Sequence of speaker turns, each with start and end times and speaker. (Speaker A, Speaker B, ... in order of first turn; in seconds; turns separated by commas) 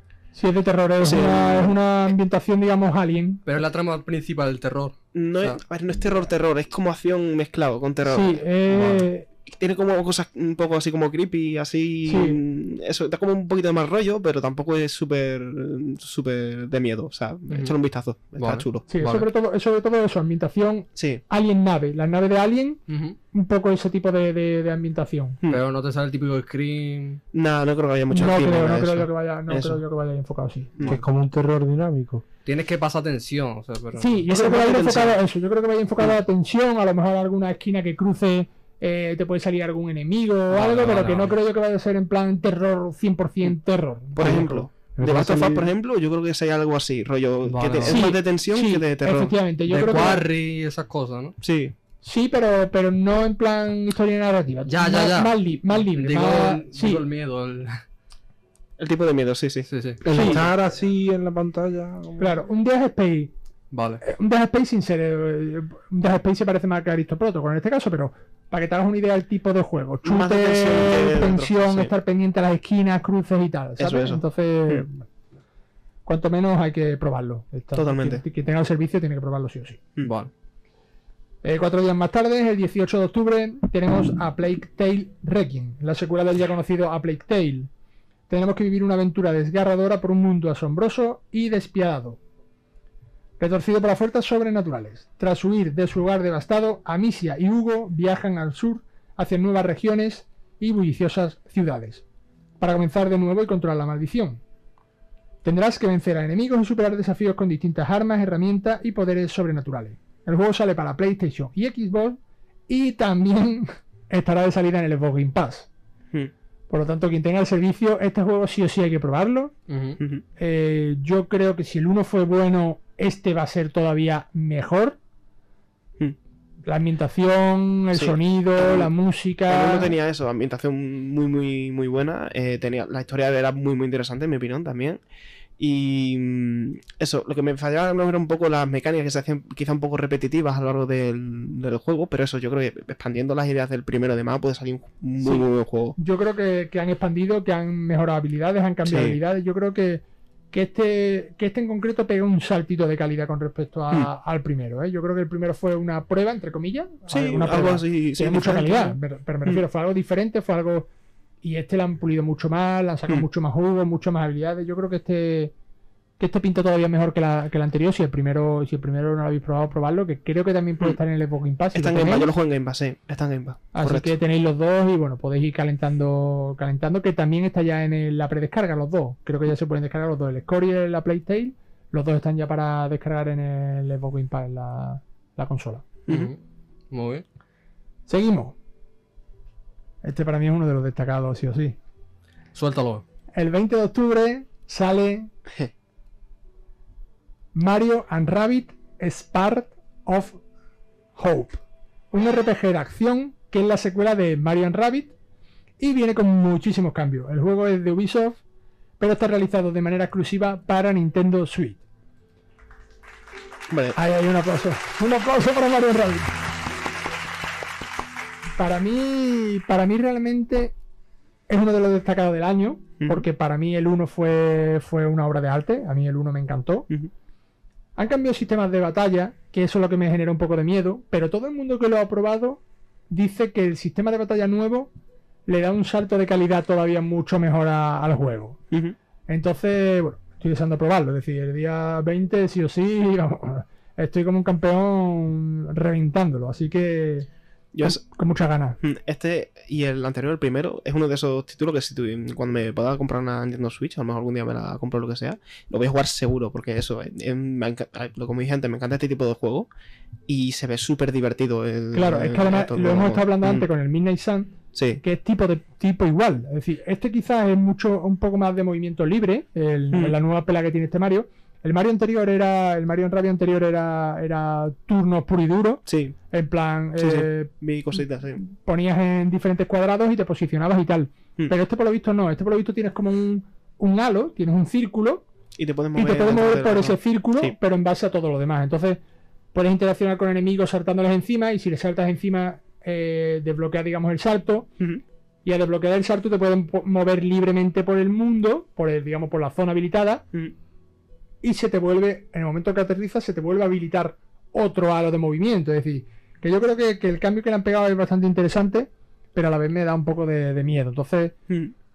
Speaker A: 0.3-3.4, Speaker B: 1.0-1.8, Speaker C: 3.5-5.6, Speaker B: 5.1-18.9, Speaker A: 8.1-9.3, Speaker A: 12.1-12.4, Speaker C: 17.5-17.8, Speaker C: 18.4-19.3, Speaker A: 18.9-22.8, Speaker B: 21.0-21.2, Speaker C: 22.9-23.2, Speaker A: 23.3-25.4, Speaker C: 25.5-27.2, Speaker B: 27.3-29.8, Speaker A: 28.1-30.8, Speaker B: 30.8-31.1, Speaker D: 30.9-32.2, Speaker C: 32.5-34.3, Speaker A: 34.0-44.7, Speaker B: 34.3-35.2, Speaker C: 40.5-41.4, Speaker B: 44.1-50.2, Speaker D: 45.0-45.7, Speaker C: 47.5-48.1, Speaker A: 47.8-50.3, Speaker C: 49.7-51.4, Speaker B: 51.4-51.8, Speaker A: 52.0-57.0, Speaker C: 54.7-57.8, Speaker B: 58.8-60.5, Speaker C: 59.7-60.4, Speaker D: 60.0-62.4, Speaker A: 60.1-60.4, Speaker A: 62.2-63.3, Speaker C: 63.7-64.0, Speaker A: 64.0-75.0, Speaker B: 70.0-71.9, Speaker B: 73.8-74.8, Speaker A: 76.1-79.8, Speaker B: 77.8-78.2, Speaker C: 80.0-80.3, Speaker A: 81.4-87.7, Speaker A: 88.3-92.2, Speaker A: 93.4-102.0, Speaker A: 102.6-104.4, Speaker A: 105.4-115.7, Speaker A: 116.7-119.5, Speaker C: 119.7-120.0, Speaker A: 120.4-125.0, Speaker A: 126.7-129.9, Speaker B: 127.9-128.9, Speaker B: 129.5-135.0, Speaker B: 135.6-146.0, Speaker A: 145.2-160.9, Speaker B: 148.8-149.2, Speaker B: 157.1-159.6, Speaker A: 161.4-165.5, Speaker A: 166.2-172.3, Speaker B: 171.7-174.1, Speaker A: 173.7-185.9, Speaker B: 186.1-186.3, Speaker C: 186.1-186.4, Speaker C: 186.9-187.2, Speaker A: 188.1-188.6, Speaker A: 190.0-191.8, Speaker C: 192.5-193.0, Speaker A: 193.3-195.3, Speaker A: 197.5-200.4, Speaker A: 201.2-201.6, Speaker A: 202.1-205.1, Speaker A: 205.8-208.4, Speaker A: 209.0-211.8, Speaker B: 213.7-214.0, Speaker A: 213.9-216.4, Speaker A: 218.6-220.8, Speaker A: 221.5-226.9, Speaker A: 228.0-234.9, Speaker A: 235.5-238.6, Speaker B: 238.7-239.0, Speaker A: 239.3-247.3, Speaker B: 247.7-248.0, Speaker A: 247.8-248.8, Speaker B: 248.8-259.7, Speaker B: 260.3-263.7, Speaker A: 261.9-285.2, Speaker B: 264.7-265.0, Speaker B: 275.9-276.2, Speaker B: 277.0-278.4, Speaker B: 285.6-287.6, Speaker A: 285.9-289.0, Speaker A: 289.5-294.7, Speaker A: 295.4-300.2, Speaker A: 301.4-311.4